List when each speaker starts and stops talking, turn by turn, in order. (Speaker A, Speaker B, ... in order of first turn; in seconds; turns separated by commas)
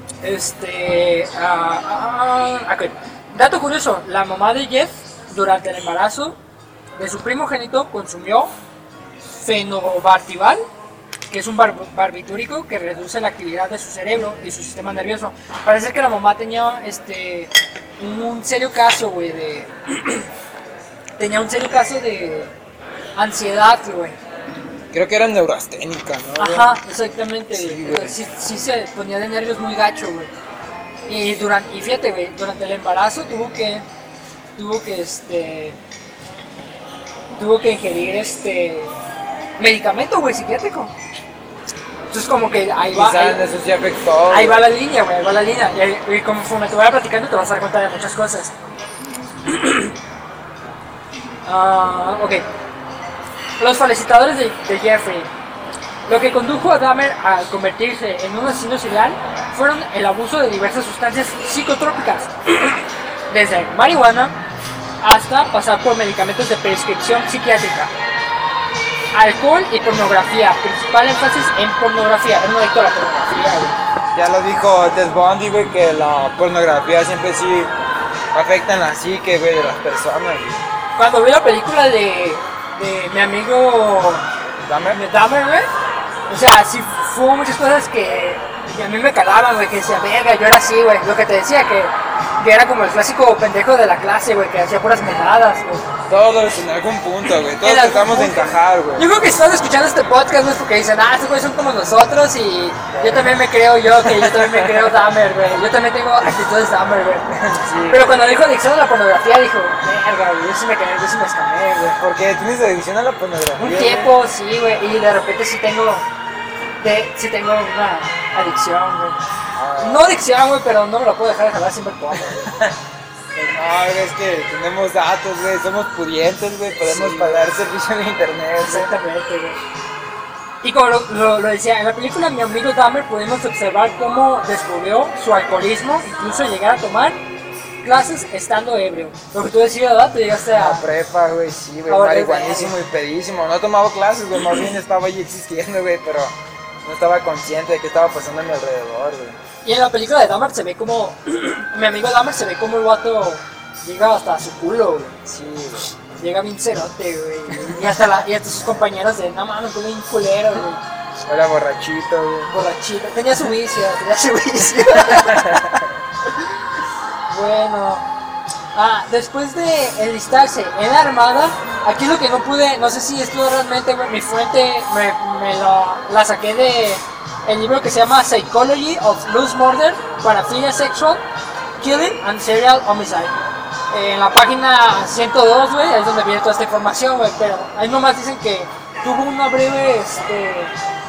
Speaker A: 0.2-6.4, Speaker A: 7.0-8.5, Speaker A: 9.3-10.6, Speaker A: 11.3-20.3, Speaker A: 21.2-22.6, Speaker A: 23.1-24.2, Speaker B: 24.9-26.8, Speaker A: 26.4-30.3, Speaker B: 27.5-28.2, Speaker A: 31.1-33.9, Speaker A: 34.6-35.8, Speaker A: 37.3-39.0, Speaker A: 39.6-40.9, Speaker A: 42.1-43.4, Speaker B: 42.9-44.7, Speaker A: 44.3-48.5, Speaker A: 49.5-50.0, Speaker A: 51.5-52.5, Speaker A: 53.6-55.3, Speaker A: 56.1-64.4, Speaker A: 65.0-67.9, Speaker A: 69.1-73.8, Speaker B: 74.1-77.7, Speaker B: 78.3-80.6, Speaker A: 81.0-84.2, Speaker B: 84.6-85.0, Speaker A: 84.9-85.7, Speaker A: 86.3-95.9, Speaker B: 96.1-99.1, Speaker A: 97.6-107.3, Speaker B: 102.9-103.3, Speaker B: 103.9-105.1, Speaker B: 107.3-108.1, Speaker A: 107.9-112.0, Speaker B: 112.0-114.1, Speaker A: 113.6-116.0, Speaker A: 116.8-119.2, Speaker B: 119.6-120.2, Speaker A: 119.8-122.5, Speaker B: 122.2-122.8, Speaker B: 123.3-128.9, Speaker A: 126.8-127.5, Speaker A: 128.6-129.6, Speaker A: 130.6-137.2, Speaker A: 137.8-140.9, Speaker B: 140.5-149.4, Speaker A: 141.9-142.8, Speaker A: 149.6-155.2, Speaker B: 155.2-155.9, Speaker A: 156.1-160.8, Speaker B: 157.5-158.2, Speaker B: 161.2-162.5, Speaker A: 162.5-165.7, Speaker B: 164.9-165.9, Speaker A: 167.3-168.1, Speaker A: 168.7-181.2, Speaker A: 181.8-183.4, Speaker A: 183.9-190.8